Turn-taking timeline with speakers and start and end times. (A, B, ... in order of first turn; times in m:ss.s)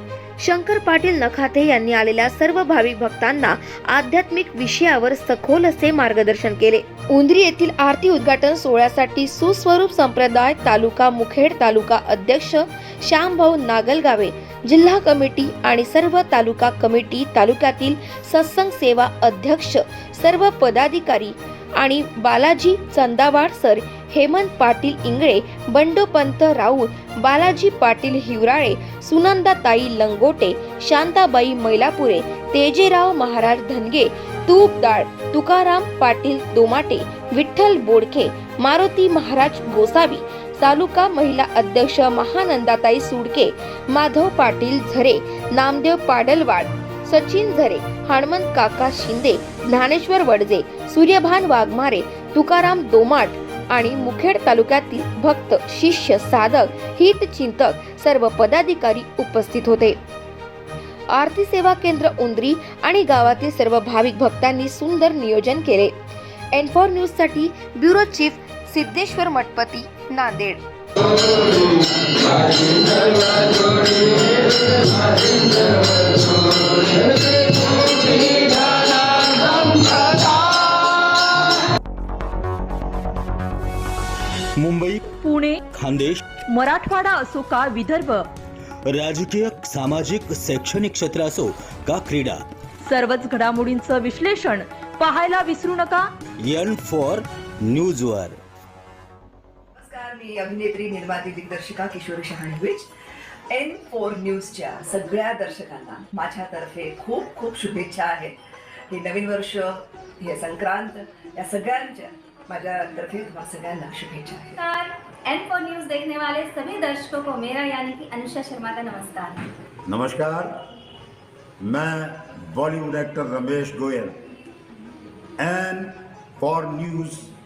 0:00.4-1:00.0 A
1:01.1-1:06.0 A
1:06.5-1:10.6 A
1:24.6-1:25.0 B
1:25.1-1:25.6 C
1:25.7-1:26.2 B
1:26.5-1:28.3 C
1:28.9-1:32.4 B
1:32.9-1:36.1 C
1:36.4-1:38.4 B
1:39.8-1:42.9 D
1:43.5-1:48.4 D
1:48.9-1:54.6 D
1:54.6-1:59.5 E
1:59.9-2:00.5 F
2:01.6-2:04.2 F
2:05.4-2:07.3 F